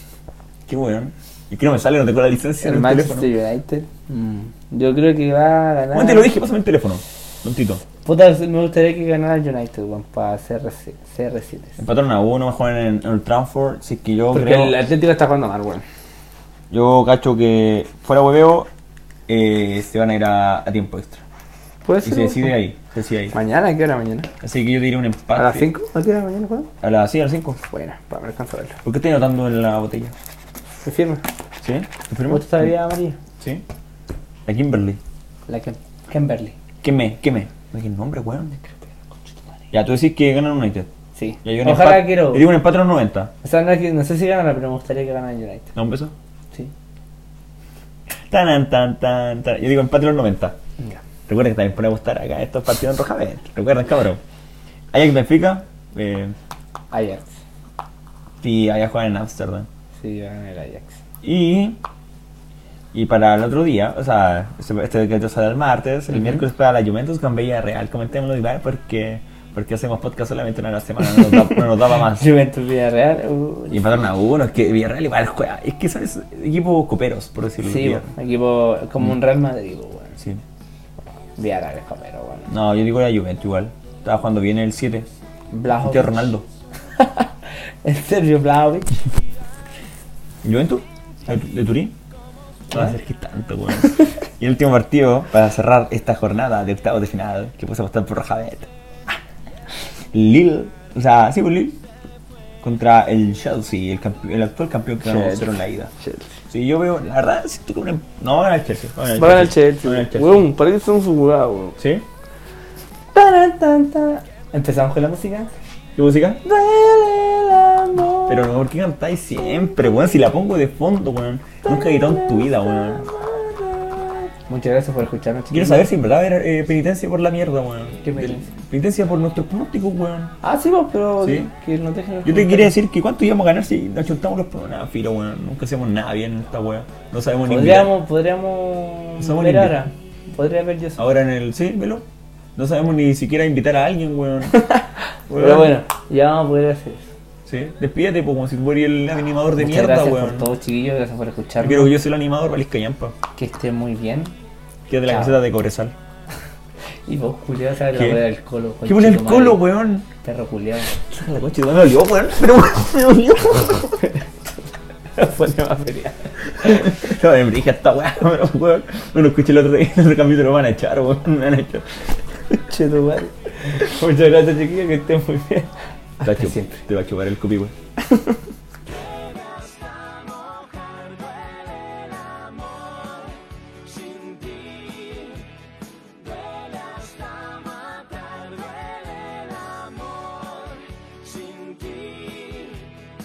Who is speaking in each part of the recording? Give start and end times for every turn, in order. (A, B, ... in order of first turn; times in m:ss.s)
0:00.7-0:03.3 A
0:02.6-0:06.3 B
0:05.9-0:07.8 A
0:08.0-0:11.8 B
0:11.8-0:14.8 A
0:14.3-0:15.8 B
0:16.7-0:18.7 A
0:19.3-0:21.2 A
0:21.8-0:22.5 B
0:22.0-0:23.4 A
0:23.3-0:24.3 B
0:24.4-0:25.7 A
0:25.4-0:26.7 B
0:26.8-0:27.6 A
0:27.7-0:28.8 B
0:28.8-0:30.2 A
0:30.8-0:31.2 B
0:31.6-0:32.7 A
0:32.3-0:33.2 B
0:33.4-0:33.6 A
0:34.5-0:35.0 A
0:35.5-0:36.6 B
0:36.8-0:38.6 A
0:38.6-0:39.6 B
0:39.7-0:40.9 A
0:41.2-0:42.5 B
0:41.4-0:43.3 A
0:43.4-0:45.7 B
0:45.8-0:46.1 A
0:48.3-0:50.6 A
0:51.3-0:54.2 A
0:54.9-0:56.4 A
0:56.9-0:57.3 B
0:58.4-0:59.7 A
1:00.0-1:01.0 B
1:01.2-1:01.8 A
1:02.9-1:12.3 A
1:06.1-1:06.4 B
1:11.3-1:14.0 B
1:13.7-1:18.1 A
1:17.6-1:20.2 B
1:21.4-1:22.5 B
1:22.5-1:25.1 A
1:25.5-1:26.1 B
1:25.8-1:26.5 A
1:27.0-1:27.3 B
1:27.8-1:28.9 B
1:30.4-1:32.0 A
1:32.7-1:38.7 A
1:40.1-1:41.8 A
1:42.6-1:45.9 A
1:45.0-1:46.3 B
1:46.5-1:50.5 A
1:49.2-1:51.8 B
1:51.8-1:52.0 A
1:53.2-1:55.5 B
1:56.0-1:56.4 A
1:56.4-1:58.5 B
1:58.3-2:03.1 A
2:01.6-2:05.9 B
2:05.5-2:10.4 A
2:08.0-2:08.5 B
2:10.4-2:12.7 B
2:11.2-2:11.5 A
2:12.2-2:17.9 A
2:17.5-2:21.0 B
2:19.2-2:19.8 A
2:21.0-2:22.0 A
2:22.6-2:24.6 A
2:24.5-2:27.1 B
2:25.3-2:25.8 A
2:27.5-2:30.5 A
2:29.6-2:31.9 B
2:31.6-2:33.2 A
2:33.4-2:34.3 B
2:34.9-2:35.9 A
2:35.1-2:35.4 B
2:37.1-2:39.6 B
2:37.9-2:38.2 A
2:38.9-2:40.1 A
2:40.2-2:41.0 B
2:41.0-2:44.1 A
2:45.2-2:47.0 B
2:46.5-2:52.2 A
2:52.6-2:56.8 B
2:56.2-2:57.7 A
2:58.1-2:58.4 B
3:11.6-3:12.8 B